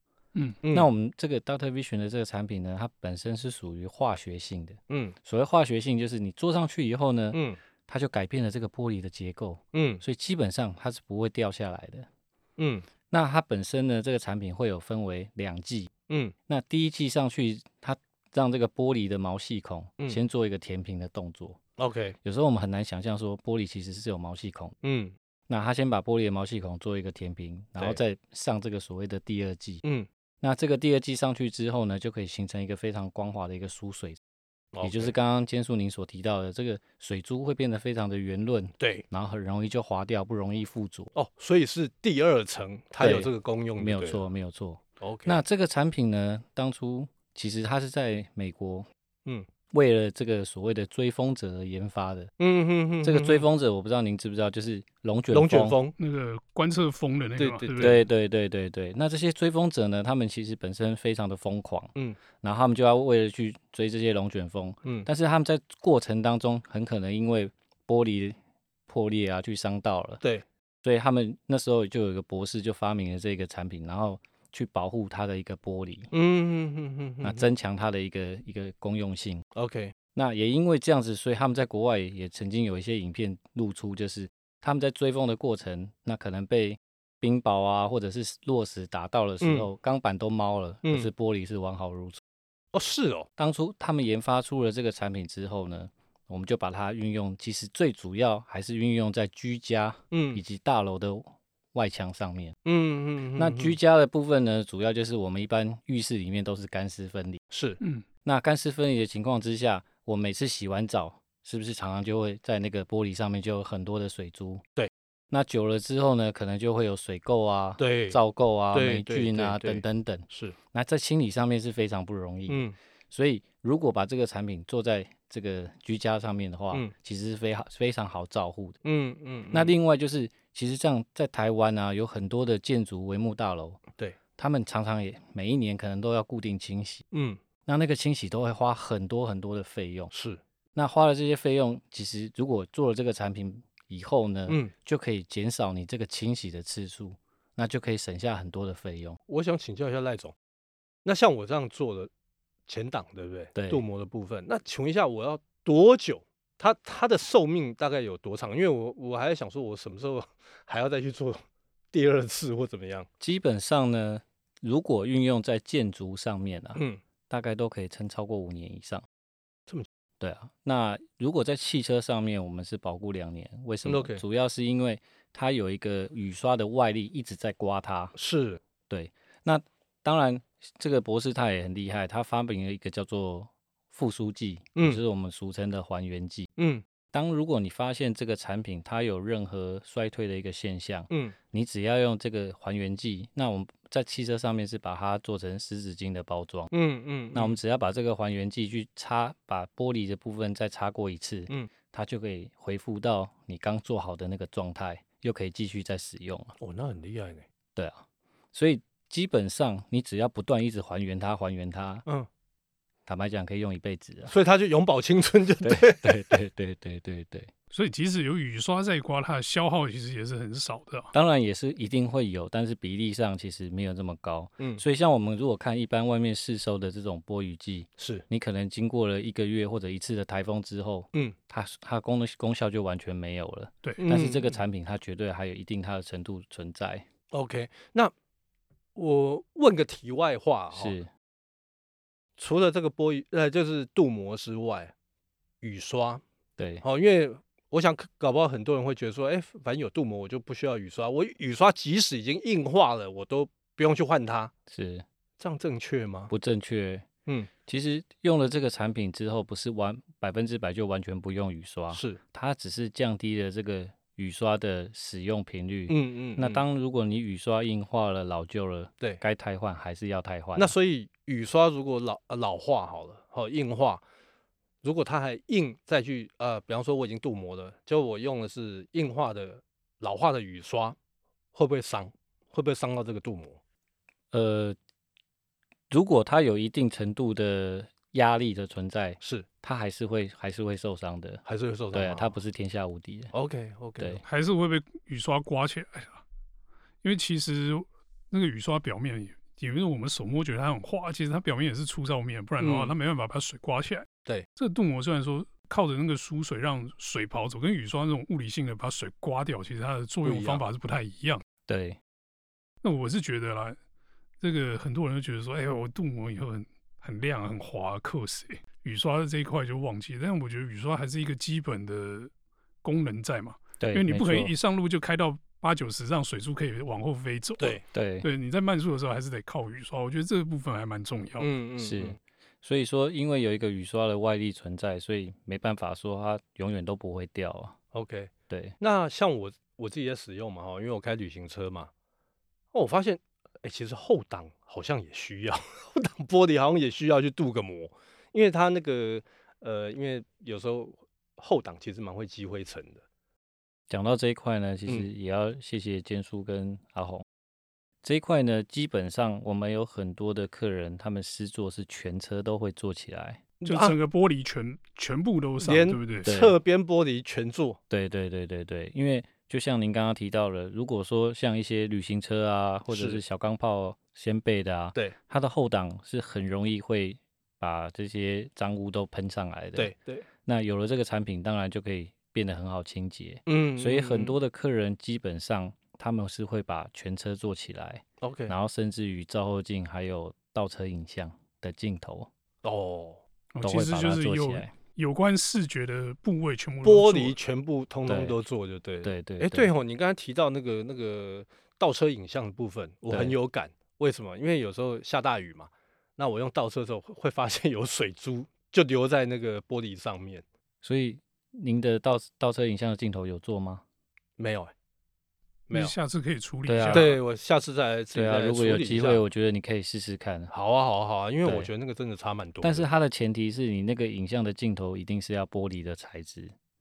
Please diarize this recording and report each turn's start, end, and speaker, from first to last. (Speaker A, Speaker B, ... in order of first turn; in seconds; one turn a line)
Speaker A: 0.6-0.9
Speaker B: 0.7-12.1
Speaker A: 4.9-5.2
Speaker A: 7.3-7.6
Speaker A: 9.7-10.0
Speaker A: 12.6-12.9
Speaker B: 13.1-15.9
Speaker A: 16.1-16.3
Speaker B: 16.5-21.6
Speaker A: 21.8-22.1
Speaker B: 22.2-24.8
Speaker A: 24.8-25.1
Speaker B: 25.5-29.8
Speaker B: 30.4-34.2
Speaker A: 34.7-35.1
Speaker B: 34.8-41.1
Speaker A: 38.8-39.0
Speaker A: 41.1-44.2
Speaker B: 43.0-48.9
Speaker A: 45.0-45.4
Speaker B: 49.7-52.3
Speaker A: 52.4-53.4
Speaker B: 53.0-55.8
Speaker A: 55.3-55.9
Speaker C: 56.0-58.0
Speaker A: 57.4-58.0
Speaker B: 57.8-68.4
Speaker B: 68.9-70.2
Speaker B: 70.8-76.1
Speaker A: 76.1-77.5
Speaker B: 77.2-79.4
Speaker A: 79.5-79.9
Speaker B: 80.1-92.2
Speaker A: 89.4-89.7
Speaker A: 90.8-91.1
Speaker A: 92.7-93.3
Speaker B: 93.4-102.5
Speaker A: 100.1-100.4
Speaker A: 102.6-103.8
Speaker B: 103.3-107.4
Speaker A: 107.5-107.8
Speaker C: 107.8-108.0
Speaker B: 108.2-114.6
Speaker B: 115.3-128.8
Speaker A: 117.8-118.2
Speaker A: 118.7-120.5
Speaker A: 122.5-122.7
Speaker A: 128.8-129.7
Speaker B: 129.5-133.8
Speaker B: 134.4-137.0
Speaker A: 137.1-137.4
Speaker B: 137.7-140.1
Speaker A: 140.1-140.4
Speaker B: 140.7-149.2
Speaker A: 144.5-144.7
Speaker A: 149.3-150.3
Speaker A: 151.0-152.1
Speaker A: 152.7-163.1
Speaker B: 153.5-153.8
Speaker B: 163.2-169.0
Speaker A: 166.8-167.0
Speaker B: 170.2-178.2
Speaker A: 173.8-174.2
Speaker A: 178.2-178.6
Speaker B: 178.9-186.5
Speaker A: 184.7-185.0
Speaker A: 186.6-186.8
Speaker B: 187.1-196.7
Speaker A: 191.1-191.3
Speaker A: 196.7-197.6
Speaker B: 197.3-206.5
Speaker A: 206.6-207.4
Speaker B: 207.8-212.0
Speaker B: 213.1-214.3
Speaker A: 214.3-216.3
Speaker B: 215.6-217.5
Speaker C: 217.7-221.1
Speaker B: 221.1-237.1
Speaker A: 224.6-224.8
Speaker A: 228.0-228.2
Speaker A: 234.0-234.6
Speaker A: 237.3-238.1
Speaker A: 238.9-240.9
Speaker B: 240.7-241.1
Speaker A: 242.4-244.9
Speaker A: 245.6-246.2
Speaker B: 246.6-246.8
Speaker A: 246.8-254.5
Speaker B: 254.7-255.0
Speaker A: 255.4-256.3
Speaker B: 256.3-257.1
Speaker B: 257.6-270.8
Speaker A: 261.9-262.2
Speaker A: 265.9-266.6
Speaker A: 270.6-274.0
Speaker A: 274.8-280.9
Speaker A: 281.5-283.6
Speaker B: 284.3-284.8
Speaker B: 285.9-293.3
Speaker A: 289.2-289.4
Speaker A: 291.4-292.4
Speaker A: 293.3-294.2
Speaker C: 294.2-296.2
Speaker C: 297.0-311.4
Speaker A: 302.6-302.9
Speaker A: 310.2-310.6
Speaker B: 311.7-312.0
Speaker C: 312.8-313.8
Speaker C: 314.4-322.3
Speaker C: 322.8-331.5
Speaker B: 323.8-324.5
Speaker B: 327.9-328.3
Speaker A: 331.4-332.2
Speaker B: 331.8-337.8
Speaker A: 337.9-341.9
Speaker B: 338.5-338.8
Speaker A: 342.7-353.0
Speaker B: 353.9-357.2
Speaker B: 358.0-363.4
Speaker A: 363.6-363.9
Speaker C: 363.6-366.3
Speaker A: 365.6-367.8
Speaker B: 366.2-366.6
Speaker B: 367.9-379.9
Speaker A: 372.9-373.2
Speaker A: 379.8-380.2
Speaker B: 380.4-392.3
Speaker A: 383.4-384.4
Speaker A: 388.2-388.5
Speaker A: 392.6-393.2
Speaker C: 393.5-397.4
Speaker B: 393.6-394.7
Speaker A: 396.8-410.4
Speaker B: 398.1-398.4
Speaker B: 399.0-399.7
Speaker B: 403.1-403.4
Speaker B: 410.8-413.8
Speaker A: 414.4-414.7
Speaker C: 415.7-417.2
Speaker B: 416.6-417.1
Speaker A: 416.9-419.2
Speaker B: 418.1-420.5
Speaker A: 420.5-422.9
Speaker B: 421.4-421.7
Speaker B: 422.6-426.5